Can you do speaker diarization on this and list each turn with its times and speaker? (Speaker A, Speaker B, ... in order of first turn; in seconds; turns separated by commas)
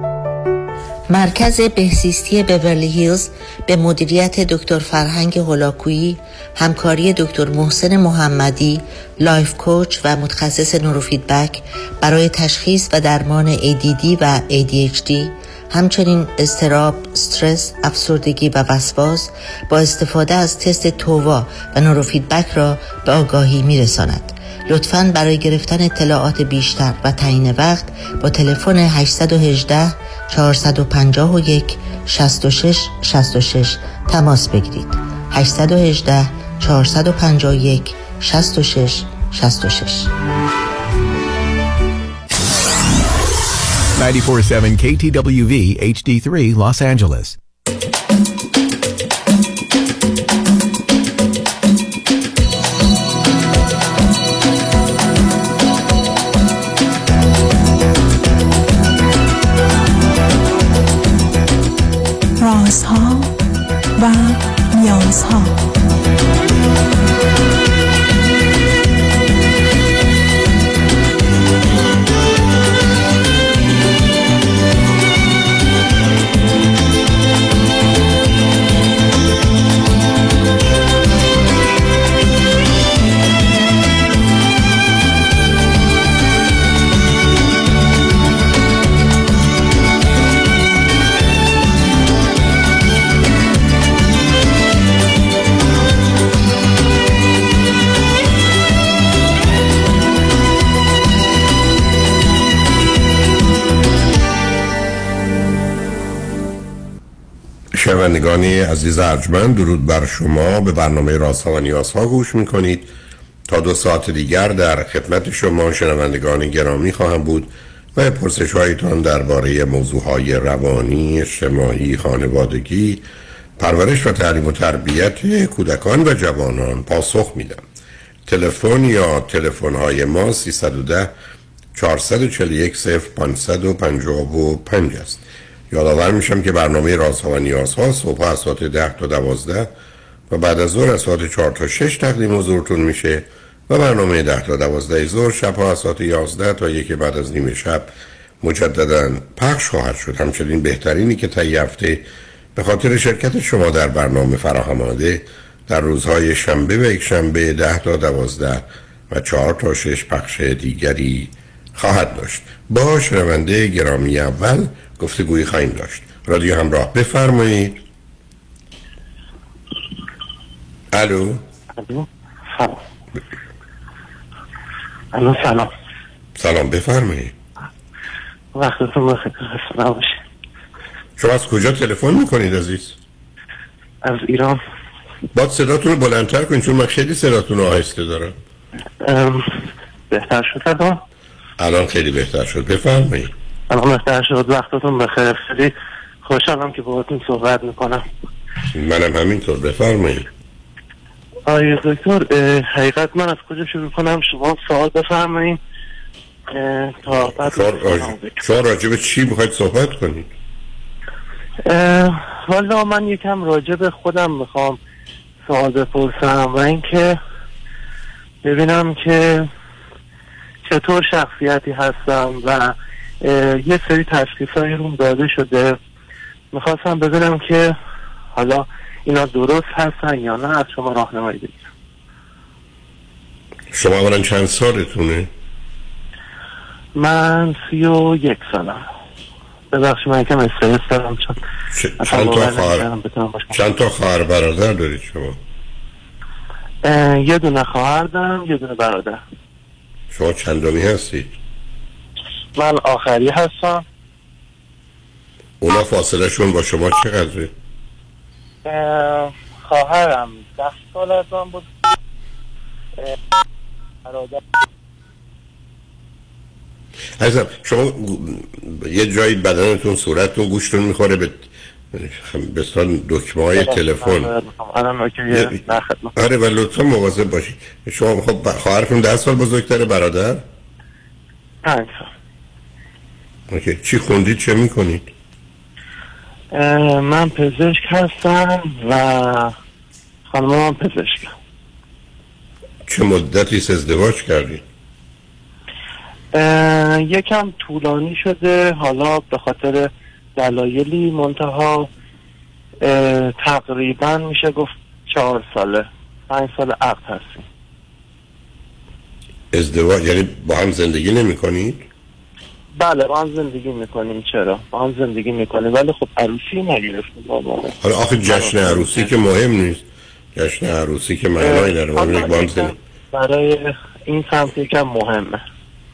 Speaker A: 1.1-40.1, Speaker B: 44.0-47.3, Speaker C: 62.4-63.3, Speaker C: 64.0-65.6, Speaker D: 107.7-112.9, Speaker D: 113.5-123.0, Speaker D: 123.6-127.6, Speaker D: 128.3-131.1, Speaker D: 131.7-139.7, Speaker D: 140.3-147.9, Speaker D: 148.4-152.0, Speaker D: 152.6-167.8, Speaker D: 170.9-171.4, Speaker E: 171.8-172.8, Speaker E: 175.1-175.7, Speaker D: 176.4-177.3, Speaker E: 178.5-180.2, Speaker D: 181.2-183.0, Speaker E: 184.0-184.6, Speaker D: 185.3-188.3, Speaker E: 189.0-191.0, Speaker D: 191.6-193.3, Speaker E: 193.7-195.7, Speaker E: 196.2-198.0, Speaker D: 198.7-200.3, Speaker E: 201.5-205.6, Speaker E: 206.5-208.4, Speaker D: 207.2-210.3, Speaker E: 211.6-214.8, Speaker E: 215.5-217.2, Speaker E: 218.4-219.5, Speaker E: 220.7-225.8, Speaker E: 226.5-227.7, Speaker E: 228.3-231.6, Speaker D: 233.7-235.3, Speaker E: 236.9-238.8, Speaker E: 239.7-241.4, Speaker D: 241.7-242.9, Speaker E: 242.0-243.6, Speaker D: 243.5-245.4, Speaker E: 246.8-249.2, Speaker D: 250.1-251.3, Speaker E: 252.6-253.8, Speaker D: 255.6-257.5, Speaker E: 258.6-261.7, Speaker E: 264.1-264.4, Speaker D: 267.2-274.3, Speaker E: 273.6-276.1, Speaker D: 276.1-280.4, Speaker E: 281.6-282.1, Speaker D: 283.5-285.1, Speaker E: 286.5-289.5, Speaker E: 290.3-291.3, Speaker D: 292.9-294.6, Speaker E: 296.3-301.9, Speaker E: 302.8-307.4, Speaker D: 309.5-311.8, Speaker E: 312.8-319.1, Speaker D: 317.8-322.7, Speaker E: 321.4-325.4